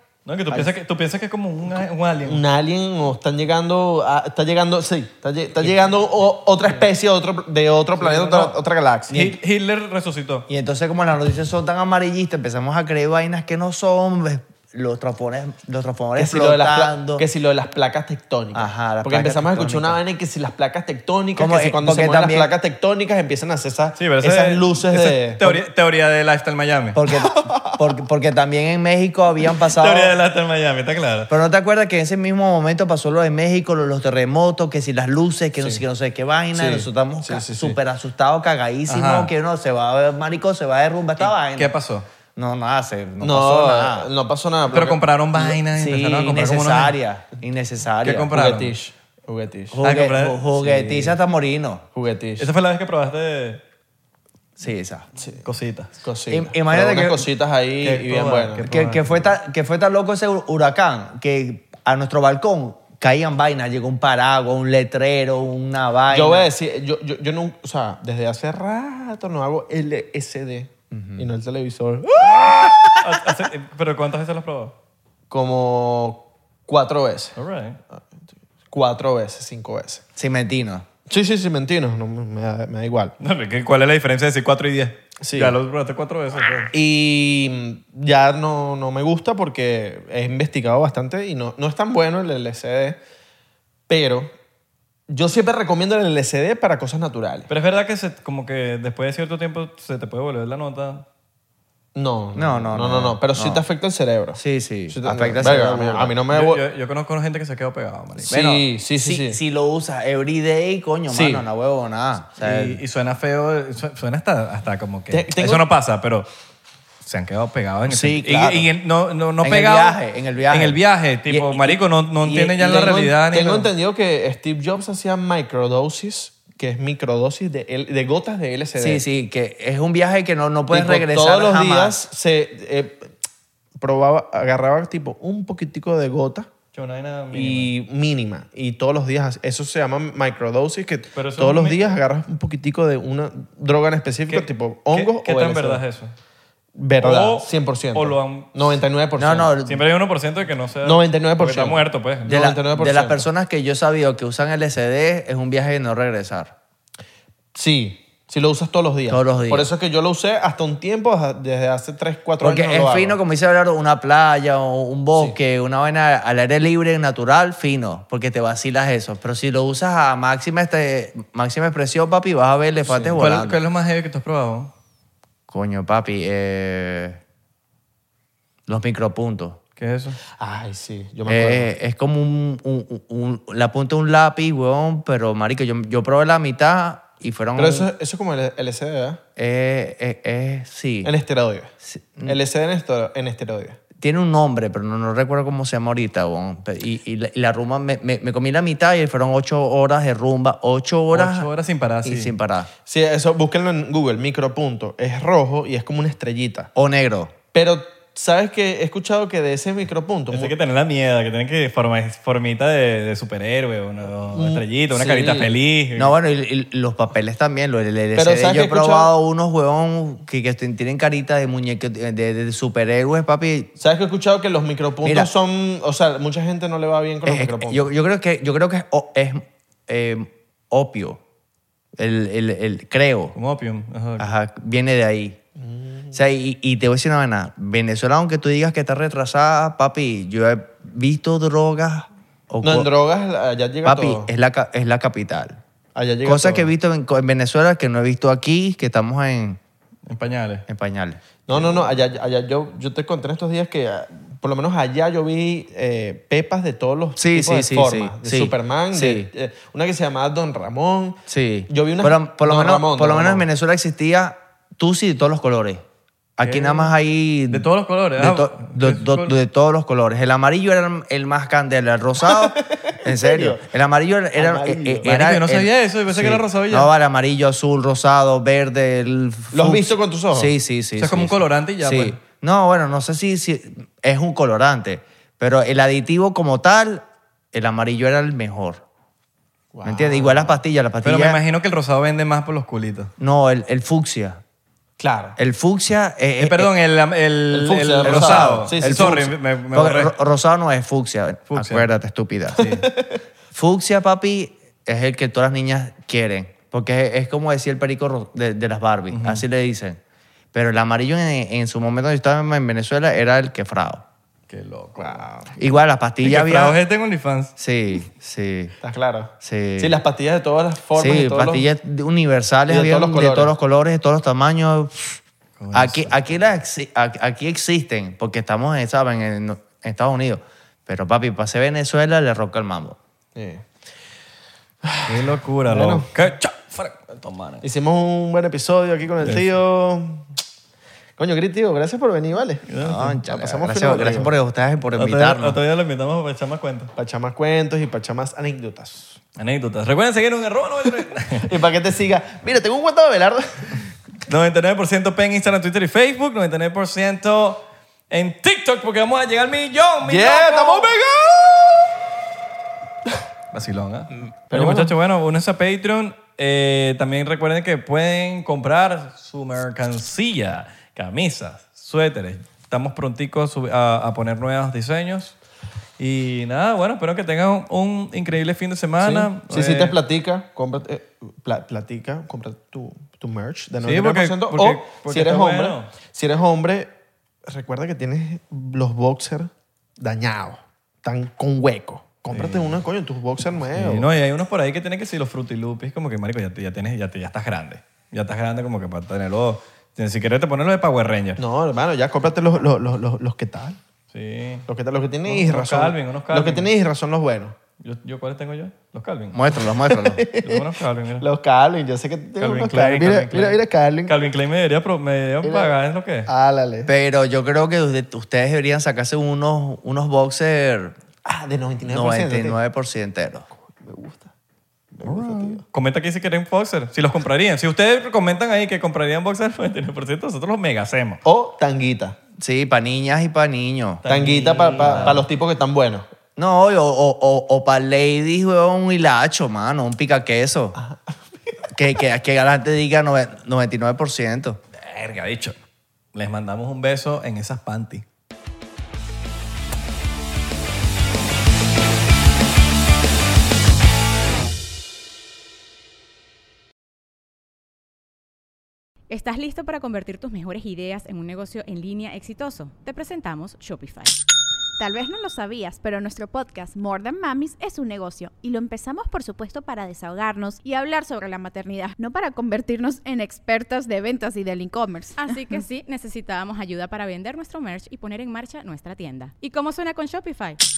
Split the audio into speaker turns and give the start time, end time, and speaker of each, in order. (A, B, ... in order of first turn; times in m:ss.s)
0:00.3-0:02.4 A
0:02.3-0:09.3 B
0:08.0-0:10.5 A
0:10.5-0:17.2 C
0:16.2-0:25.6 B
0:18.5-0:20.0 C
0:21.4-0:22.5 C
0:24.0-0:27.0 A
0:27.0-0:30.2 C
0:27.2-0:27.8 B
0:29.8-0:31.3 A
0:31.3-0:41.7 C
0:35.6-0:35.8 B
0:36.5-0:37.8 B
0:38.9-0:39.3 A
0:41.2-0:42.1 A
0:42.4-0:44.1 C
0:43.2-0:45.0 B
0:44.7-0:47.0 A
0:45.6-0:48.4 C
0:48.0-0:48.8 A
0:48.3-0:49.8 B
0:49.7-0:51.8 C
0:49.8-0:51.2 A
0:51.9-0:52.5 B
0:52.4-0:53.6 A
0:54.6-0:55.1 C
0:55.2-0:55.4 B
0:55.4-0:55.9 A
0:56.0-0:58.6 B
0:56.3-0:57.3 C
0:57.8-0:59.4 A
0:58.6-1:06.5 C
1:06.1-1:13.0 B
1:10.9-1:11.3 C
1:13.0-1:14.8 A
1:15.3-1:17.4 B
1:17.4-1:17.8 A
1:18.7-1:20.0 B
1:20.2-1:20.8 C
1:21.1-1:23.2 B
1:23.2-1:26.7 A
1:25.2-1:25.6 B
1:26.7-1:33.0 B
1:33.9-1:34.3 B
1:35.1-1:37.5 B
1:37.5-1:41.1 A
1:42.0-1:46.6 B
1:42.4-1:43.6 C
1:44.4-1:46.2 C
1:46.3-1:48.3 A
1:48.2-1:49.4 B
1:48.3-1:52.8 C
1:51.1-1:51.4 B
1:52.4-1:56.3 A
1:55.1-1:55.6 B
1:57.0-2:03.7 A
1:57.9-1:58.7 C
1:59.4-2:01.8 C
2:02.3-2:09.0 B
2:08.8-2:12.0 C
2:10.7-2:13.1 B
2:13.8-2:16.5 B
2:16.7-2:17.7 A
2:17.3-2:25.8 B
2:21.2-2:22.0 A
2:24.3-2:26.1 A
2:26.8-2:29.5 B
2:27.0-2:28.7 A
2:29.2-2:29.8 C
2:29.7-2:32.4 A
2:30.8-2:33.3 B
2:32.3-2:36.5 C
2:37.6-2:43.2 B
2:39.1-2:39.7 C
2:42.4-2:53.6 C
2:52.9-2:53.2 B
2:53.2-2:54.7 A
2:55.5-2:57.2 C
2:58.7-2:59.6 C
2:59.8-3:00.2 A
3:00.4-3:01.7 B
3:01.3-3:07.9 C
3:07.6-3:09.2 B
3:09.4-3:11.1 C
3:11.0-3:11.7 B
3:11.9-3:12.4 C
3:12.2-3:13.8 B
3:14.0-3:21.5 C
3:21.1-3:22.4 A
3:22.0-3:22.7 C
3:22.9-3:26.7 B
3:26.8-3:27.3 C
3:27.5-3:30.5 B
3:30.3-3:36.2 A
3:34.3-3:35.5 B
3:36.0-3:43.7 C
3:38.2-3:39.1 B
3:43.8-3:47.9 B
3:45.0-3:45.3 C
3:47.2-3:51.2 C
3:52.0-3:53.4 C
3:53.4-3:54.3 A
3:54.2-3:55.4 C
3:55.6-3:56.2 B
3:56.1-4:02.9 C
4:02.6-4:04.3 B
4:03.8-4:05.6 C
4:06.0-4:06.7 B
4:06.2-4:09.6 C
4:10.1-4:10.7 A
4:10.7-4:11.8 C
4:11.5-4:23.5 B
4:17.2-4:19.3 C
4:21.3-4:25.8 C
4:26.4-4:48.8 C
4:26.4-4:26.9 A
4:27.5-4:29.4 A
4:32.3-4:33.6 B
4:34.4-4:35.1 B
4:35.0-4:36.9 A
4:39.5-4:40.5 B
4:41.0-4:42.2 A
4:49.7-4:50.6 B
4:49.8-4:51.4 C
4:51.0-4:53.1 A
4:53.2-4:54.4 C
4:55.0-4:55.4 B
4:55.4-4:56.7 C
4:56.4-5:00.2 A
4:57.5-4:59.2 B
4:58.0-5:02.7 C
5:01.5-5:01.9 A
5:02.6-5:02.9 A
5:02.6-5:03.2 B
5:03.5-5:10.0 C
5:09.1-5:09.4 A
5:10.5-5:14.0 C
5:14.5-5:15.2 A
5:15.0-5:15.5 B
5:15.6-5:16.8 C
5:16.2-5:17.5 A
5:17.6-5:18.8 C
5:18.8-5:21.7 B
5:19.4-5:20.0 C
5:21.0-5:25.2 C
5:22.7-5:23.5 B
5:25.6-5:26.4 A
5:25.7-5:33.0 C
5:33.4-5:33.7 B
5:34.8-5:36.1 B
5:35.1-5:37.6 A
5:37.6-5:40.3 B
5:39.2-5:39.6 A
5:41.2-5:42.7 B
5:42.7-5:43.2 A
5:42.8-5:45.6 C
5:43.3-5:44.3 B
5:45.0-5:46.9 A
5:47.0-5:49.2 B
5:49.4-5:51.5 A
5:51.4-5:53.8 B
5:54.3-6:01.7 A
6:00.0-6:01.0 B
6:03.5-6:15.4 A
6:04.5-6:04.9 B
6:16.0-6:20.0 A
6:19.0-6:26.9 B
6:23.8-6:25.9 A
6:27.5-6:34.1 B
6:32.3-6:32.8 A
6:33.7-6:41.4 A
6:41.4-6:43.8 B
6:44.1-6:44.7 A
6:44.7-6:47.6 B
6:45.3-6:46.7 A
6:47.8-6:49.5 A
6:49.3-6:50.3 C
6:49.9-6:50.7 B
6:50.4-6:51.2 A
6:51.2-6:54.2 B
6:52.4-6:56.3 A
6:55.4-6:56.9 B
6:56.9-7:01.0 C
7:01.2-7:02.6 B
7:01.9-7:03.5 C
7:03.6-7:04.3 B
7:04.9-7:05.6 B
7:05.0-7:11.2 A
7:11.2-7:12.2 B
7:12.4-7:14.0 C
7:14.0-7:15.2 A
7:14.1-7:16.1 B
7:14.8-7:15.2 C
7:16.4-7:20.8 C
7:20.8-7:21.6 B
7:21.7-7:24.6 C
7:24.7-7:25.6 A
7:26.1-7:28.0 A
7:39.1-7:44.2 D
7:44.8-7:55.6 E
7:55.2-8:00.6 D